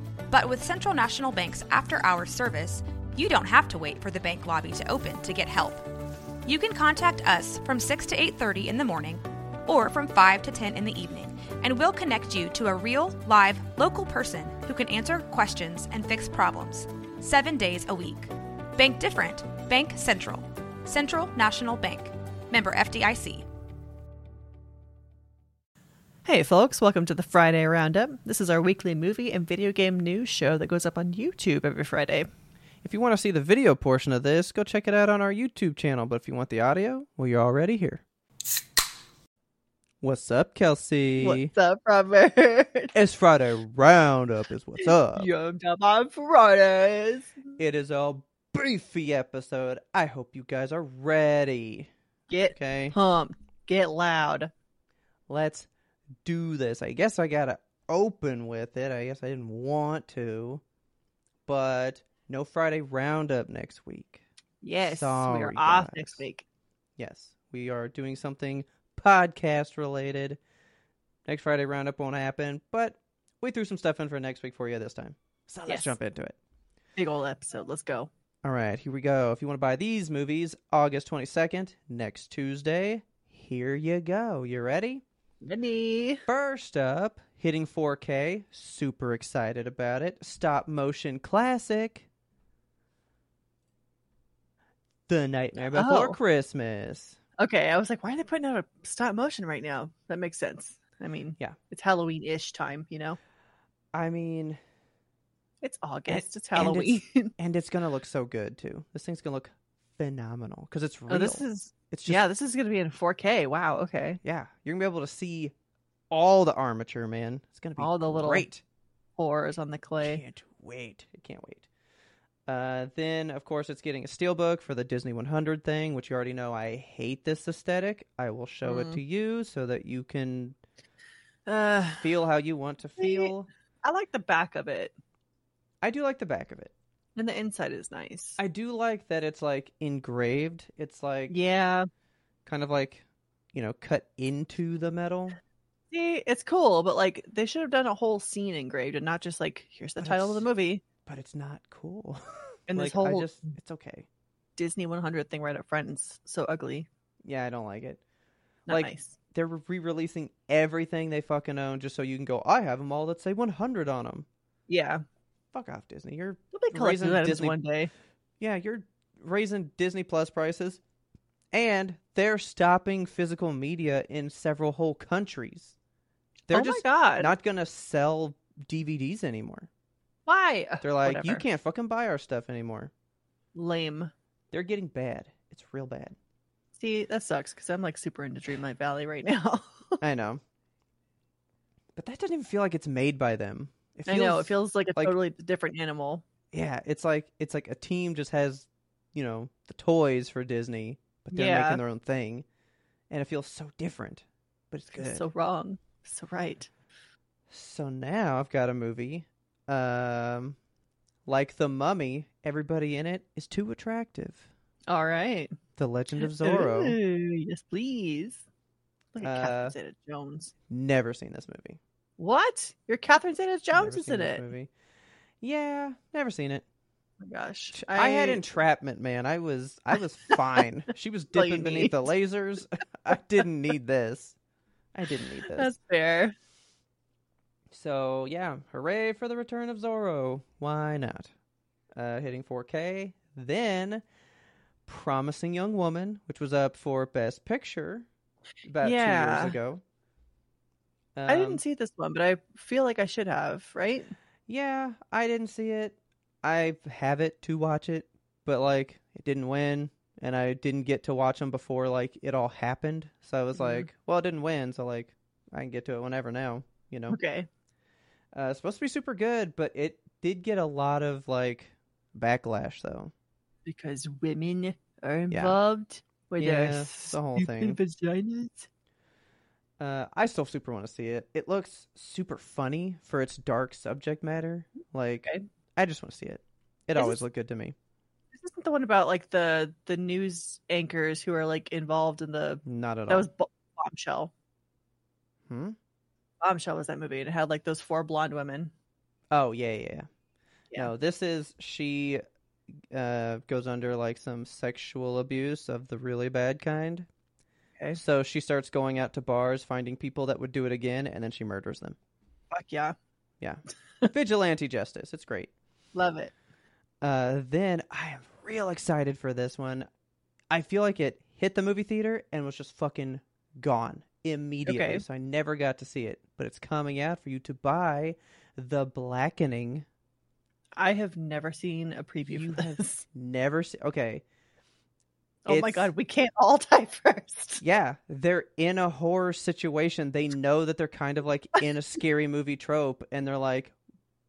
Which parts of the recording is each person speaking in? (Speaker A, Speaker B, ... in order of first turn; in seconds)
Speaker A: 0.3-5.8, 6.5-23.4
Speaker B: 26.2-32.3, 41.2-42.9, 44.8-47.6, 52.3-54.5, 64.6-66.4, 75.7-76.0, 77.0-78.1, 85.4-86.2, 95.7-96.2, 97.4-103.2, 105.6-107.3, 111.1-114.2, 117.8-118.5, 119.2-120.2, 128.6-129.0, 131.5-132.1, 133.0-134.9, 137.2-138.4, 141.3-141.8, 145.9-150.8, 152.7-153.5, 154.6-156.9, 158.7-159.2, 164.7-165.0, 166.5-167.9, 176.5-177.3, 180.3-181.4, 183.5-184.1, 186.8-190.0, 194.1-196.2, 201.3-201.8, 204.9-206.7, 214.9-215.5, 216.4-218.4, 219.1-220.5, 222.2-224.4, 227.2-228.4, 231.3-232.0, 235.5-236.3, 248.8-249.6, 251.3-254.1, 263.5-263.9, 267.1-267.5, 273.6-278.7, 286.9-287.2, 288.3-294.3, 296.4-298.7, 312.5-312.9, 315.9-316.3, 324.6-325.0, 330.8-333.0, 335.4-337.6
Speaker C: 32.8-38.0, 40.0-41.5, 42.9-45.3, 47.6-51.9, 52.5-52.9, 55.3-55.7, 56.2-60.6, 61.5-64.2, 64.8-66.2, 67.0-70.4, 71.2-76.3, 78.4-85.0, 86.3-92.1, 95.1-97.2, 103.9-104.6, 106.1-112.2, 114.2-115.5, 116.1-118.6, 120.0-121.6, 122.5-130.6, 132.0-133.5, 135.8-136.7, 138.4-141.3, 142.4-145.4, 150.0-150.4, 151.1-154.1, 157.2-158.0, 158.7-164.2, 165.5-167.6, 168.4-170.8, 171.5-175.7, 176.5-179.7, 180.8-182.9, 184.5-186.2, 190.0-190.4, 191.9-195.1, 196.5-202.4, 203.1-205.2, 207.5-210.6, 211.2-214.5, 215.8-217.0, 219.2-219.7, 220.7-221.8, 223.7-224.7, 225.4-226.6, 227.7-234.3, 234.9-235.7, 237.7-241.3, 241.9-244.0, 244.8-248.1, 248.6-249.8, 251.2-251.6, 254.5-267.2, 268.3-273.1, 276.4-277.8, 279.8-287.7, 292.6-293.2, 295.5-295.8, 299.3-300.1, 300.8-302.2, 302.9-307.1, 307.9-312.0, 313.4-315.5, 317.0-319.9, 320.5-329.9, 332.2-334.2, 335.5-335.9, 337.6-343.7